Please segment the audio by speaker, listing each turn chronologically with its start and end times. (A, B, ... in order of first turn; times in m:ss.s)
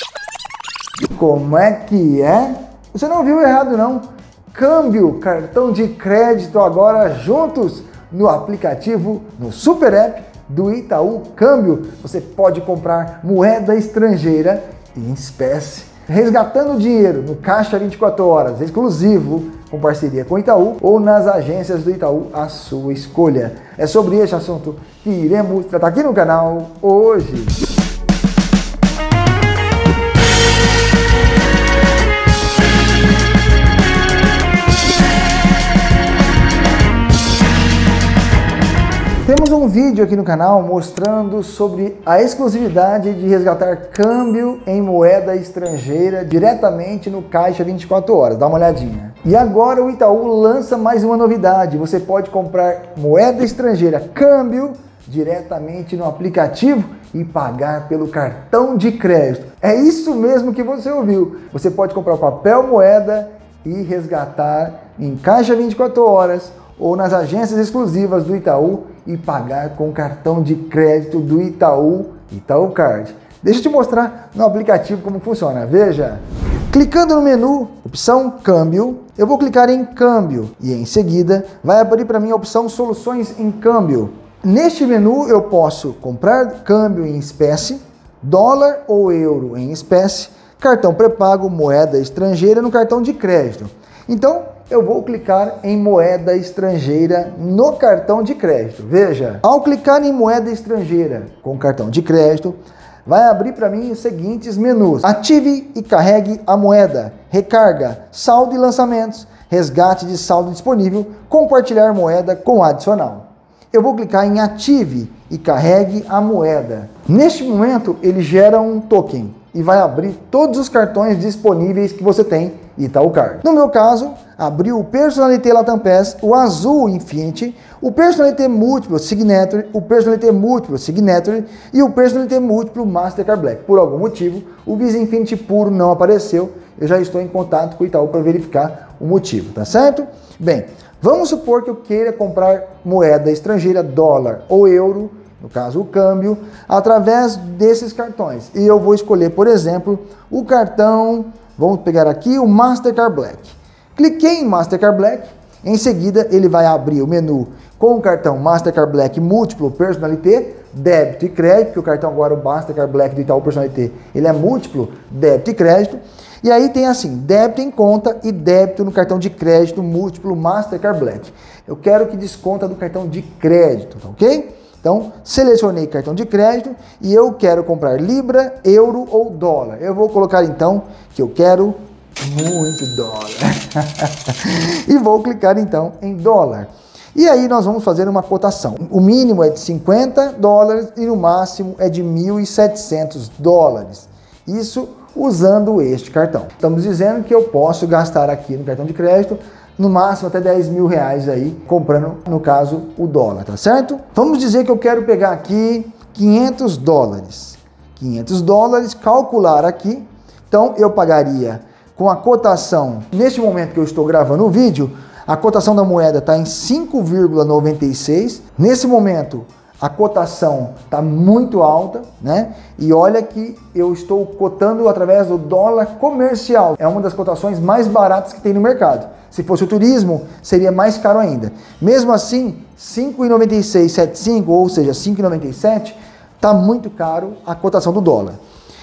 0:01.1-0:27.6 A
0:39.2-3:58.4 A